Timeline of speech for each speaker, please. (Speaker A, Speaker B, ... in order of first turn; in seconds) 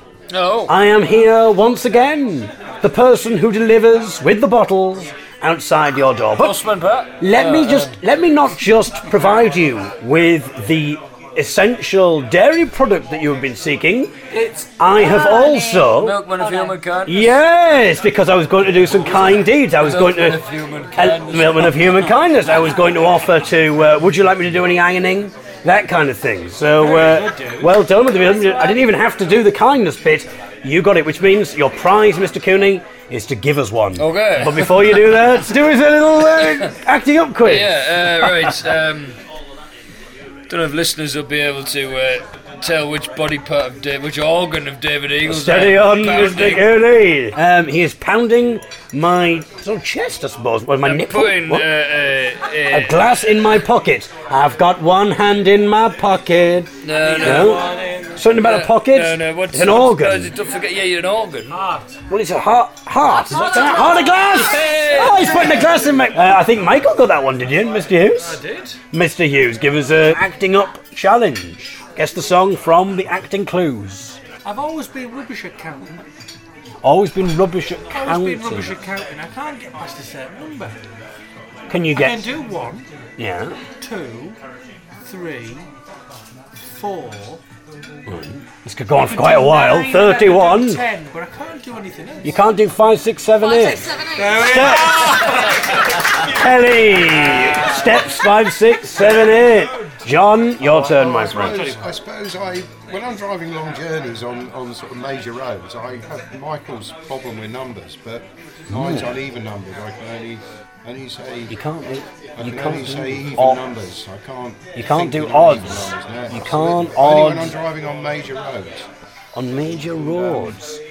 Speaker A: 0.3-0.7, 6.4-8.0, 14.3-14.7, 15.8-17.4, 19.0-22.1, 34.0-35.3, 37.4-39.2, 40.5-46.7, 50.8-53.0, 56.8-61.6, 63.4-65.7
Speaker B: 0.7-6.5, 7.2-14.1, 14.8-16.2, 17.1-20.4, 20.9-38.5, 45.2-51.7, 52.7-57.6, 58.1-60.3, 62.1-68.4, 68.9-74.2, 76.8-78.7, 81.7-82.2, 83.2-83.5, 88.1-90.8, 92.2-93.9, 94.4-95.3, 96.2-101.6, 108.7-109.1, 111.5-113.6, 114.7-117.6, 119.3-120.8
Speaker C: 14.9-15.8, 16.4-16.7, 63.2-63.9, 93.4-95.1
Speaker D: 26.8-27.9, 56.9-58.2, 61.5-62.0, 64.2-65.8, 68.3-68.8, 74.4-76.0, 77.9-80.9, 81.9-82.9, 83.8-84.4, 85.0-85.7, 86.6-87.4, 89.0-92.4, 94.1-95.6, 97.2-97.5, 100.7-101.8
Speaker E: 100.7-111.5, 112.4-118.9, 119.9-120.5